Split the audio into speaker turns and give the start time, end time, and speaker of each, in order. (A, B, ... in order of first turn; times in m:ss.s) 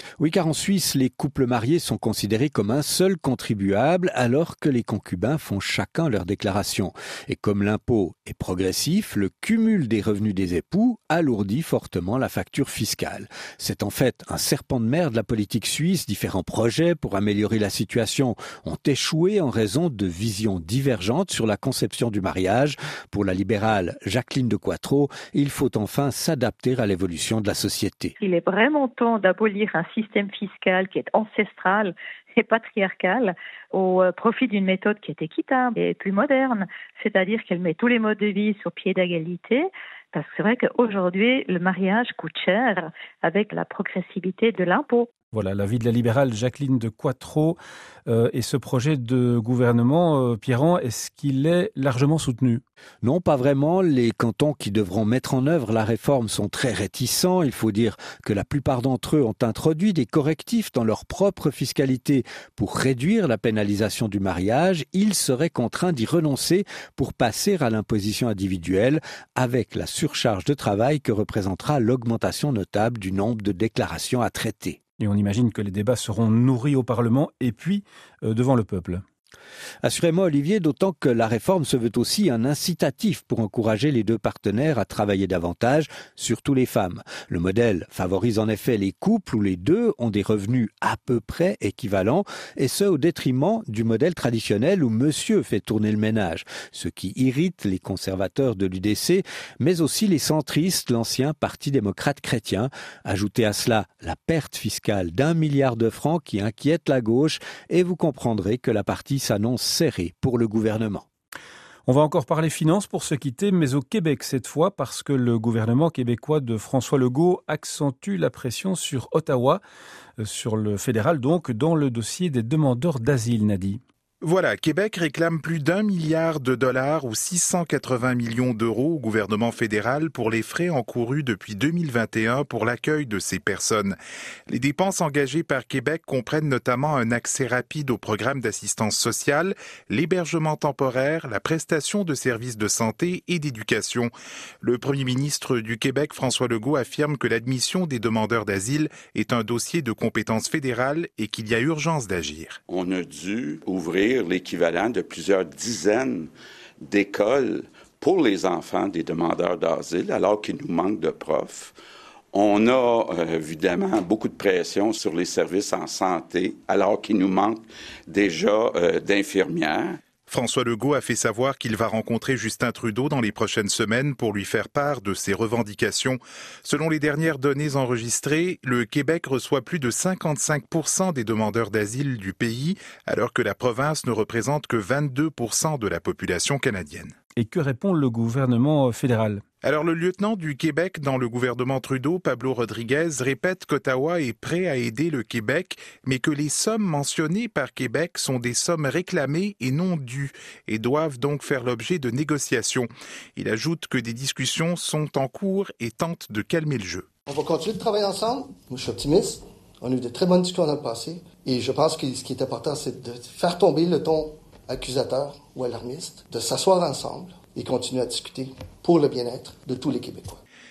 0:00.2-0:28.2 A
0:28.2-0:45.1 B
0:45.3-0:52.6 C
0:53.0-1:14.8 A
1:15.0-1:19.0 C
1:19.8-1:51.1 A
1:51.9-1:59.6 C
2:00.2-2:03.8 C
2:04.2-2:14.0 D
2:14.5-2:24.1 D
2:24.6-2:32.6 D
2:32.7-2:36.3 E
2:36.8-2:41.8 E
2:42.3-2:50.0 E
2:50.3-3:07.1 D
3:07.4-3:09.4 C
3:09.6-3:27.0 D
3:27.3-3:40.4 F